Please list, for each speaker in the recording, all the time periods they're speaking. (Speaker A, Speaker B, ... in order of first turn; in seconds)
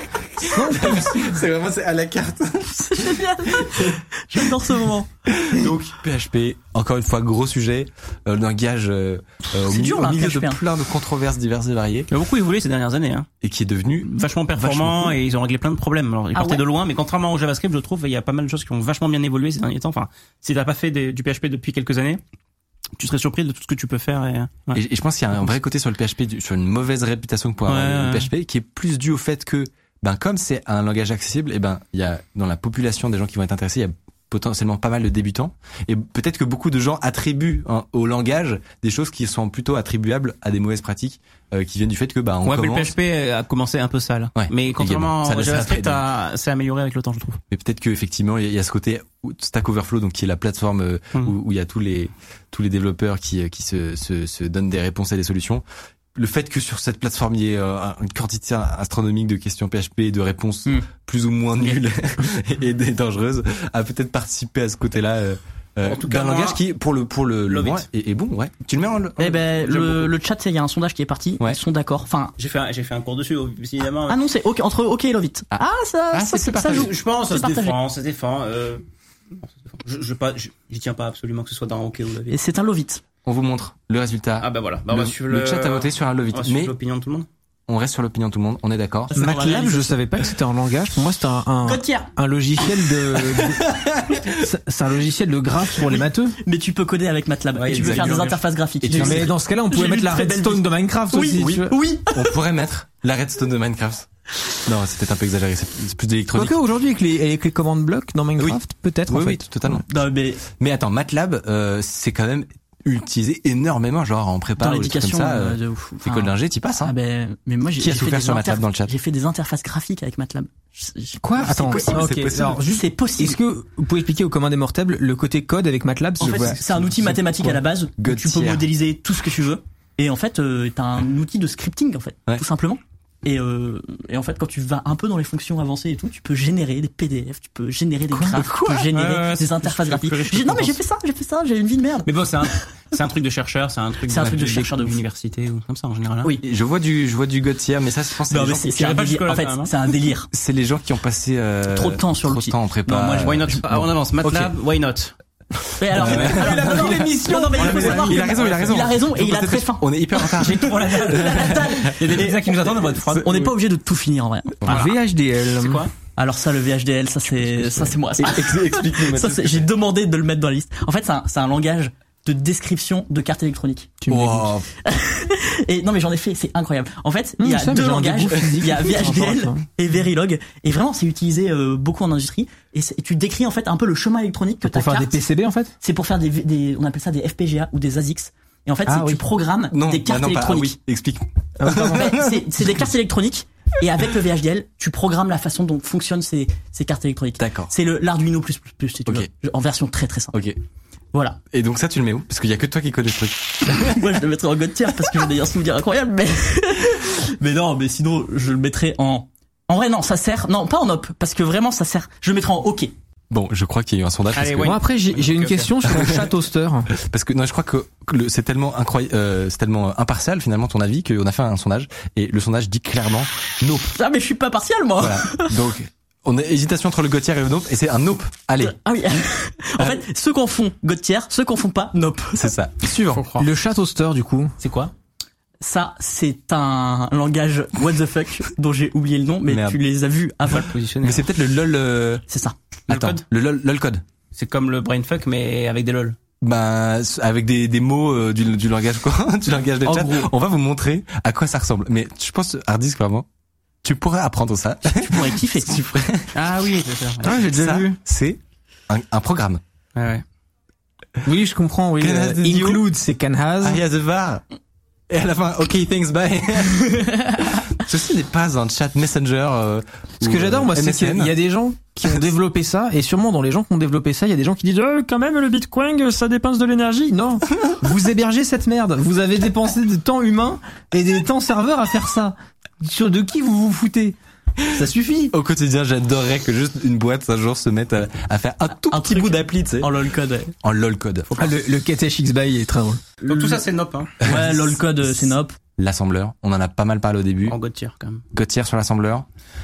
Speaker A: 0.4-1.1, 89.1-96.4, 98.8-101.8, 106.3-109.8, 121.2-127.5, 156.2-158.4, 164.6-165.9, 167.4-167.9, 174.0-174.5, 177.4-179.7, 184.6-185.7, 188.9-189.2, 191.6-192.2, 214.6-216.9, 233.4-234.5, 257.2-258.0, 261.2-263.8, 270.2-284.1, 284.7-285.3, 291.4-293.6
Speaker B: 0.7-3.9, 5.3-12.1, 13.4-15.1, 24.7-42.9, 44.4-46.0, 47.5-55.6, 56.1-69.2, 75.5-76.9, 83.2-86.7, 87.7-89.1, 101.4-104.0, 104.7-106.5, 108.4-109.8, 110.6-116.9, 117.8-118.9, 121.9-122.6, 128.0-128.7, 138.1-138.9, 146.4-148.7, 150.3-153.5, 154.2-154.5, 155.9-156.9, 157.6-161.6, 168.2-169.7, 174.1-174.7, 189.7-192.4, 197.4-197.7, 201.5-204.0, 213.3-214.8, 217.0-223.9, 225.0-228.7, 232.3-233.2, 239.5-239.8, 241.0-242.2, 242.9-244.0, 246.4-253.2, 253.8-256.3, 257.4-259.6, 262.0-262.8, 263.6-264.4, 265.1-271.3, 285.3-289.9, 290.6-291.5, 294.3-294.6, 295.8-297.6, 298.3-299.3
Speaker C: 2.7-5.1, 9.5-10.6, 16.3-16.6, 69.2-72.3, 74.1-77.8, 82.3-83.0, 89.1-90.0, 91.6-92.1, 96.4-102.3, 109.7-110.4, 114.6-123.4, 126.2-142.6, 144.0-145.0, 148.3-150.3, 151.7-153.7, 155.8-164.9, 166.2-173.9, 174.8-185.2, 185.8-190.8, 191.9-200.4, 201.1-201.4, 203.7-212.9, 223.9-225.7, 228.6-232.5, 235.6-240.7, 242.3-242.6, 249.8-250.3, 254.8-255.8, 288.7-290.5, 294.2-295.5
Speaker D: 12.1-13.3, 14.0-22.2, 23.0-24.8, 27.6-28.3, 42.4-47.4, 65.8-66.6, 67.5-67.9, 69.2-70.1, 72.4-74.2, 76.7-78.8, 79.4-82.4, 84.4-87.3, 97.5-99.3, 138.2-140.8, 142.0-146.3, 148.6-149.8, 153.2-155.1, 155.9-159.0, 160.4-163.6, 164.6-165.9, 214.3-215.7, 233.1-233.5, 234.6-234.9, 240.5-241.2, 242.9-243.2, 244.3-246.2, 256.3-257.5, 259.9-260.2, 293.2-294.1, 297.4-298.2